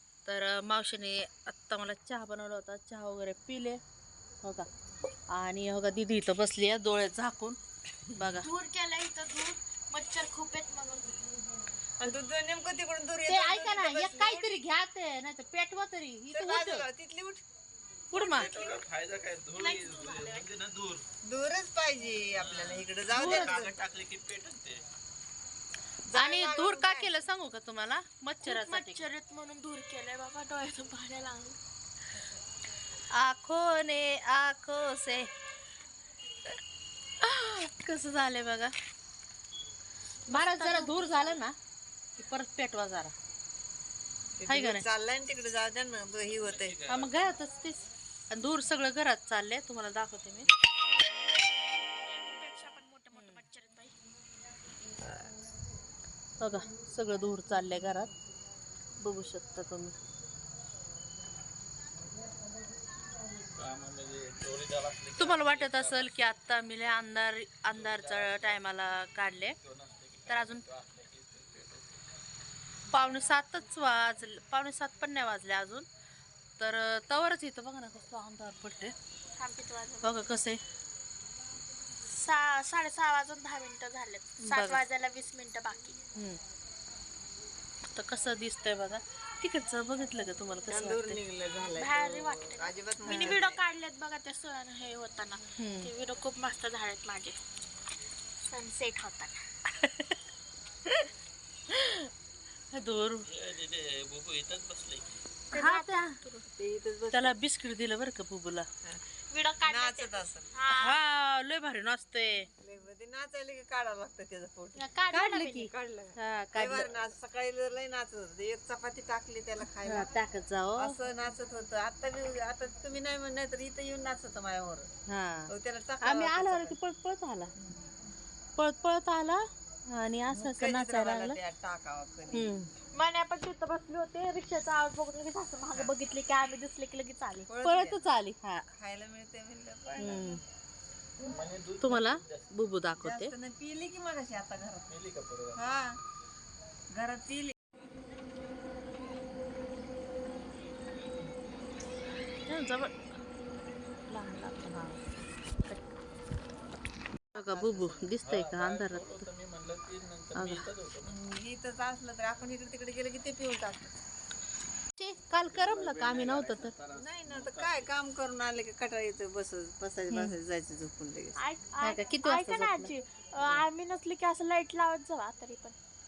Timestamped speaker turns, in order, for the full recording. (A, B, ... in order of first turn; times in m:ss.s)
0:00.3-0:03.8 A
0:05.3-0:07.6 A
0:08.2-0:08.5 A
0:08.4-0:11.2 B
0:12.0-0:14.6 C
0:13.3-0:16.9 A
0:16.3-0:17.4 C
0:18.1-0:18.5 A
0:18.2-0:18.8 C
0:18.2-0:21.0 D
0:19.6-0:20.5 B
0:21.2-0:23.8 C
0:22.4-0:24.8 D
0:23.2-0:23.6 A
0:26.1-0:27.2 C
0:26.1-0:29.0 A
0:28.4-0:31.6 B
0:33.1-0:35.3 A
0:37.2-0:38.7 A
0:40.3-0:41.4 B
0:40.3-0:41.6 A
0:42.2-0:43.1 A
0:44.4-0:46.8 C
0:44.5-0:44.8 A
0:46.4-0:47.2 D
0:46.9-0:50.5 A
0:52.0-0:54.0 B
0:53.1-0:53.4 A
0:55.0-0:55.3 C
0:56.4-0:58.1 A
0:59.0-1:00.0 A
1:03.6-1:06.3 D
1:05.2-1:09.6 A
1:07.7-1:08.6 D
1:09.6-1:12.1 D
1:10.3-1:10.6 A
1:12.9-1:15.9 A
1:16.6-1:19.0 A
1:19.4-1:20.4 B
1:20.0-1:20.6 A
1:22.1-1:26.0 B
1:24.4-1:24.8 A
1:26.2-1:26.4 A
1:28.0-1:31.2 A
1:30.7-1:33.6 C
1:31.7-1:37.4 B
1:33.1-1:33.4 A
1:35.6-1:35.9 A
1:38.5-1:39.4 B
1:39.8-1:40.1 A
1:41.7-1:42.1 A
1:42.7-1:43.3 A
1:43.3-1:45.2 D
1:45.5-1:46.5 B
1:45.5-1:46.2 A
1:46.6-1:47.4 C
1:47.1-1:48.7 A
1:49.3-1:51.0 B
1:49.6-1:50.5 C
1:50.7-1:52.5 A
1:52.6-1:54.8 C
1:54.8-1:55.7 B
1:55.1-1:56.9 A
1:55.6-2:00.1 C
1:59.8-2:01.0 A
2:00.8-2:04.9 C
2:05.1-2:05.5 A
2:05.5-2:06.8 C
2:06.0-2:07.5 A
2:08.6-2:11.4 A
2:10.3-2:12.5 C
2:12.3-2:12.7 A
2:12.9-2:17.5 B
2:17.5-2:18.1 C
2:17.6-2:18.6 A
2:18.7-2:20.4 C
2:20.0-2:20.4 A
2:21.2-2:22.5 D
2:21.8-2:23.3 A
2:23.0-2:24.9 C
2:24.9-2:25.6 D
2:25.5-2:26.0 C
2:26.9-2:27.5 C
2:32.4-2:32.9 A
2:34.1-2:35.0 A
2:37.4-2:38.1 C
2:37.4-2:39.3 A
2:38.2-2:41.1 D
2:40.4-2:40.7 A
2:41.1-2:43.9 C
2:45.0-2:46.7 A
2:45.4-2:47.9 D
2:46.9-2:51.4 C
2:51.4-2:55.8 B
2:51.8-2:52.9 A